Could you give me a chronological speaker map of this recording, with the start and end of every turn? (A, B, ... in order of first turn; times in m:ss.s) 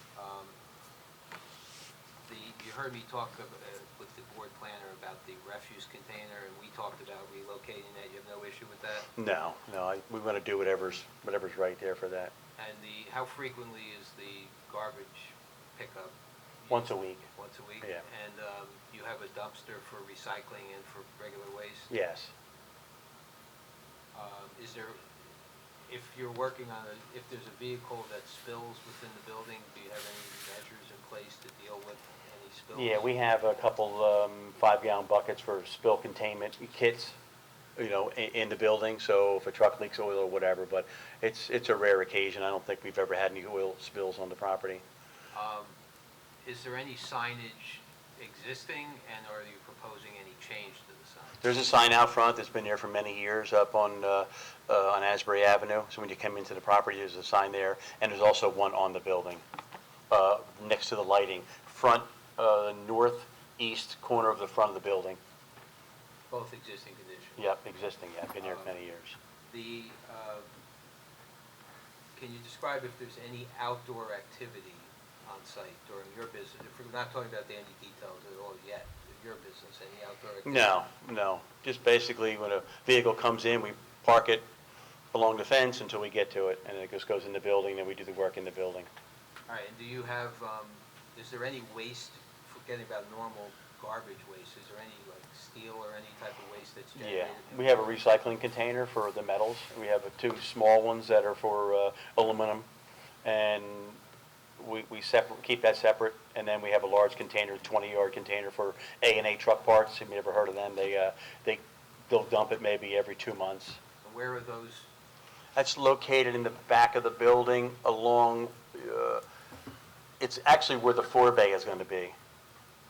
0:00.1-0:00.6 A
0:02.2-0:09.1 A
0:09.2-0:12.3 B
0:12.6-0:21.9 A
0:16.7-0:17.3 B
0:21.9-0:22.3 B
0:24.1-0:25.2 A
0:25.8-0:33.1 A
0:32.7-0:37.2 B
0:37.8-0:44.8 B
0:45.3-0:45.8 A
0:46.4-0:51.4 A
0:51.4-0:59.4 B
1:00.1-1:05.2 B
1:06.3-1:07.4 A
1:07.4-1:09.2 B
1:08.4-1:08.7 A
1:09.5-1:10.5 A
1:12.1-1:20.8 A
1:20.4-1:24.4 B
1:25.1-1:28.9 B
1:29.5-1:38.0 A
1:37.0-1:42.6 B
1:43.2-1:44.0 B
1:44.6-1:53.8 B
1:54.0-1:54.9 A
1:55.5-1:59.2 B
2:00.2-2:02.1 B